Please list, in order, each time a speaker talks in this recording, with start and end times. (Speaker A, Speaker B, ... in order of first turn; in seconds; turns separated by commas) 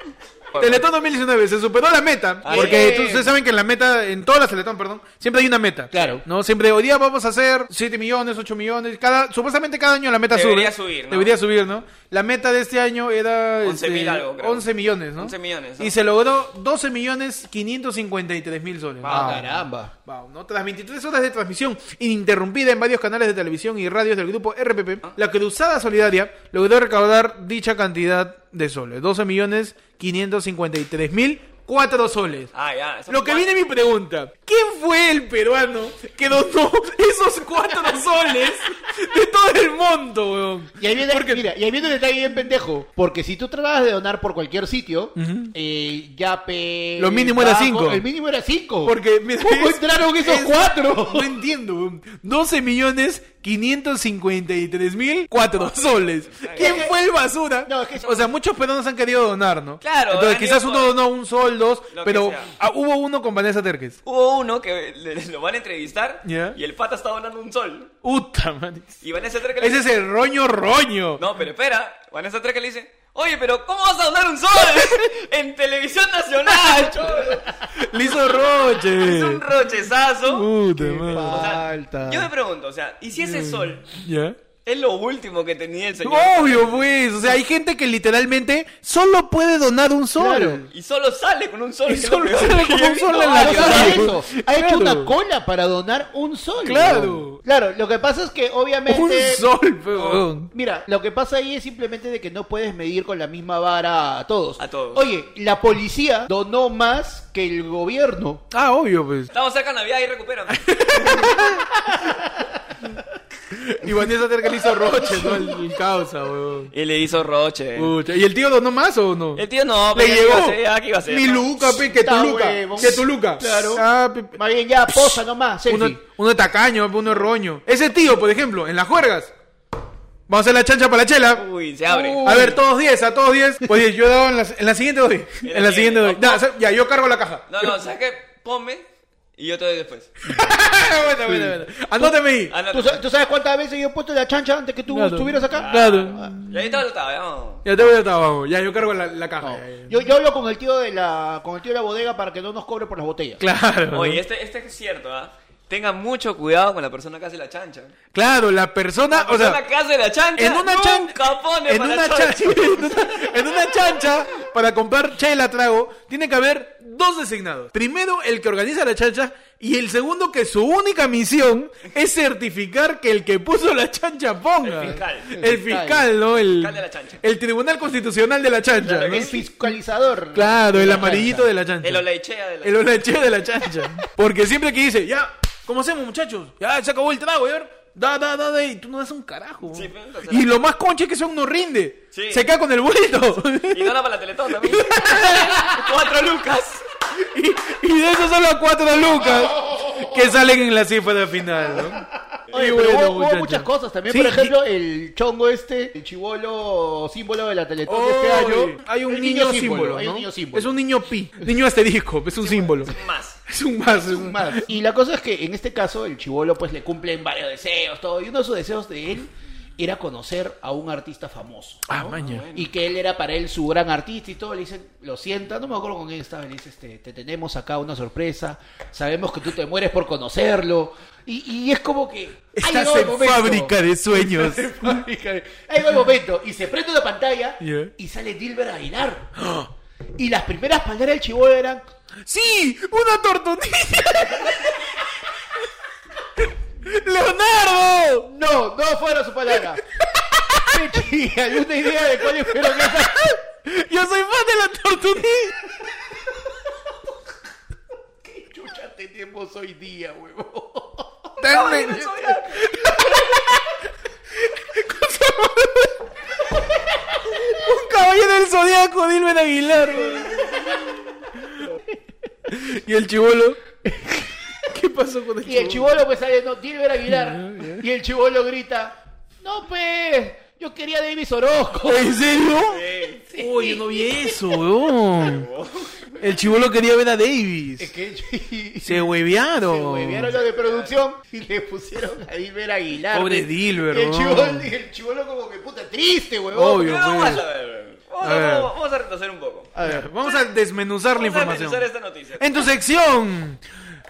Speaker A: 0.5-0.8, Speaker B: 0.6-32.5, Speaker A: 2.4-3.0, Speaker C: 2.5-3.3, Speaker C: 5.9-6.2, Speaker A: 10.3-11.4, Speaker A: 13.6-16.0, Speaker A: 19.0-19.4, Speaker C: 19.0-19.9, Speaker A: 32.5-33.5, Speaker B: 33.1-41.5, Speaker C: 40.8-51.3, Speaker B: 45.2-45.5, Speaker B: 47.0-48.0, Speaker B: 48.9-64.0, Speaker A: 55.6-56.9, Speaker C: 56.6-56.9, Speaker C: 57.7-58.2, Speaker A: 59.8-61.0, Speaker A: 61.9-62.5, Speaker A: 64.0-67.9, Speaker B: 66.2-66.6, Speaker B: 68.0-69.0, Speaker A: 69.0-69.9, Speaker B: 69.6-71.3, Speaker A: 71.2-77.5, Speaker C: 76.7-77.7, Speaker B: 77.7-79.4, Speaker A: 78.0-80.5, Speaker B: 80.3-81.5, Speaker C: 80.7-82.3, Speaker A: 81.1-83.9, Speaker B: 83.2-84.4, Speaker A: 84.7-86.9, Speaker B: 86.0-90.7, Speaker C: 90.2-90.7, Speaker A: 90.7-94.1, Speaker B: 91.9-95.1, Speaker C: 93.1-108.4, Speaker B: 96.6-97.4, Speaker B: 98.9-100.5, Speaker A: 104.6-105.0, Speaker B: 108.5-109.3, Speaker A: 109.3-111.5, Speaker B: 110.5-111.7, Speaker C: 111.8-112.5, Speaker B: 113.5-116.7, Speaker C: 114.6-115.6, Speaker A: 116.7-118.0, Speaker B: 117.8-124.4, Speaker A: 119.3-121.5, Speaker C: 121.7-126.0, Speaker B: 124.9-129.3, Speaker B: 130.3-131.4, Speaker A: 131.3-132.2, Speaker C: 131.9-132.6, Speaker B: 132.2-137.8, Speaker A: 135.4-136.4, Speaker A: 137.5-138.9, Speaker A: 139.4-140.1, Speaker B: 140.2-142.5, Speaker C: 141.2-142.2, Speaker A: 142.5-143.0, Speaker C: 142.7-146.4, Speaker B: 144.9-146.8, Speaker A: 145.5-147.9, Speaker B: 147.7-150.1, Speaker C: 149.4-153.4, Speaker B: 153.4-154.2, Speaker A: 153.9-157.9, Speaker B: 158.1-159.6, Speaker A: 159.1-164.0, Speaker B: 160.4-179.4, Speaker A: 174.6-175.4, Speaker C: 175.3-176.1, Speaker A: 176.3-177.2, Speaker A: 178.8-179.4, Speaker C: 179.0-181.5, Speaker B: 180.3-182.0, Speaker A: 181.8-183.0, Speaker B: 182.6-194.0, Speaker A: 189.7-190.5, Speaker A: 192.1-192.5, Speaker A: 193.7-196.8, Speaker B: 194.6-195.7, Speaker B: 197.2-204.5, Speaker C: 199.2-200.3, Speaker C: 202.5-210.8, Speaker B: 207.9-212.9, Speaker A: 212.4-213.4, Speaker B: 213.5-214.7, Speaker C: 213.9-239.3, Speaker B: 221.9-222.5, Speaker A: 222.1-222.7, Speaker B: 232.6-235.1, Speaker B: 237.6-237.9, Speaker B: 239.4-239.7, Speaker C: 240.2-241.8, Speaker B: 242.2-244.8, Speaker B: 246.8-248.3, Speaker C: 248.3-249.8, Speaker B: 250.2-251.0, Speaker C: 250.6-253.4, Speaker B: 251.9-255.6, Speaker C: 258.2-261.4, Speaker B: 261.4-263.4, Speaker A: 261.4-262.7, Speaker B: 264.6-265.9, Speaker B: 267.3-270.9, Speaker C: 270.0-270.8, Speaker B: 272.5-273.6, Speaker C: 273.9-274.3, Speaker B: 274.7-276.0, Speaker C: 275.4-282.2, Speaker B: 277.1-277.9, Speaker B: 281.8-282.9, Speaker A: 282.6-283.2, Speaker C: 283.3-284.5, Speaker B: 283.4-285.5, Speaker A: 285.2-285.9, Speaker B: 286.2-287.9, Speaker C: 287.8-296.9, Speaker B: 288.8-290.4, Speaker A: 290.4-291.0, Speaker B: 293.1-294.7, Speaker B: 296.5-297.4, Speaker A: 296.6-299.7, Speaker B: 298.2-298.7, Speaker C: 299.8-300.1, Speaker B: 299.8-301.9, Speaker A: 301.1-302.7, Speaker B: 302.4-303.6